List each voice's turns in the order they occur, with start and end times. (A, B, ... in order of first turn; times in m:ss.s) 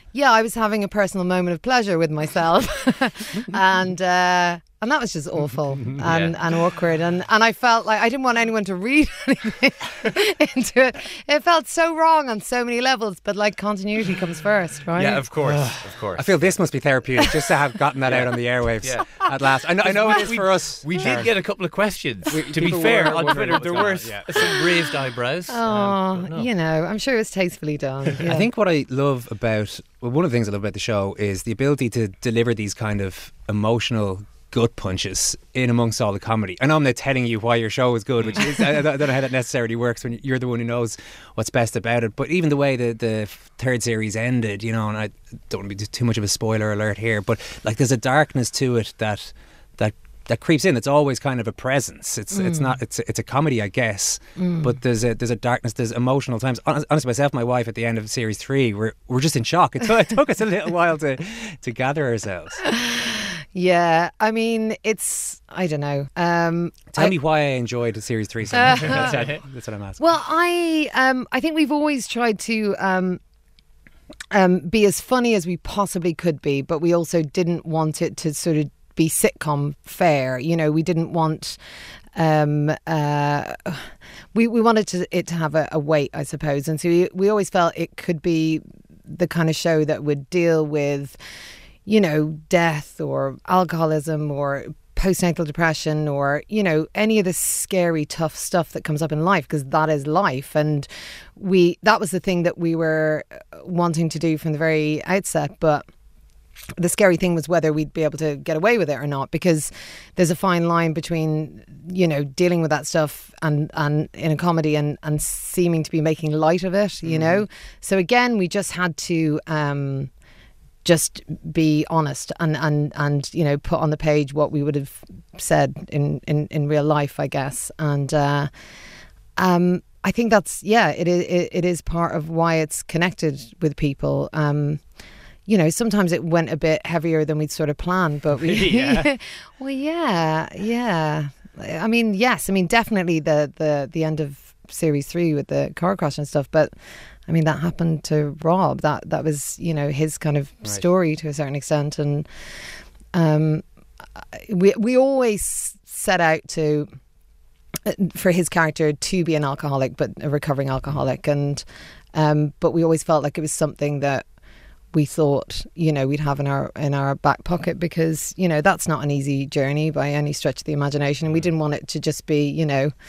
0:00.1-0:15.2 A
0:06.0-0:06.3 B
0:15.0-0:16.3 B
0:15.2-0:21.3 C
0:18.1-0:19.2 B
0:19.8-0:26.5 B
0:22.3-0:24.6 C
0:25.5-0:28.5 A
0:28.2-1:02.6 C
0:52.3-0:52.7 A
0:54.4-0:54.7 A
1:02.6-1:07.1 A
1:06.9-1:10.0 C
1:08.5-1:09.3 A
1:08.9-1:09.3 B
1:10.0-1:13.2 A
1:14.3-1:21.6 A
1:22.1-1:31.2 A
1:31.8-1:45.8 A
1:46.8-2:00.1 A
1:57.1-1:57.4 C
2:00.8-2:08.5 A
2:09.4-2:14.8 A
2:15.4-2:26.7 A
2:18.4-2:19.1 C
2:27.2-2:32.3 A
2:33.1-2:33.6 A
2:34.2-2:36.9 A
2:37.8-2:44.2 A
2:44.9-2:52.9 A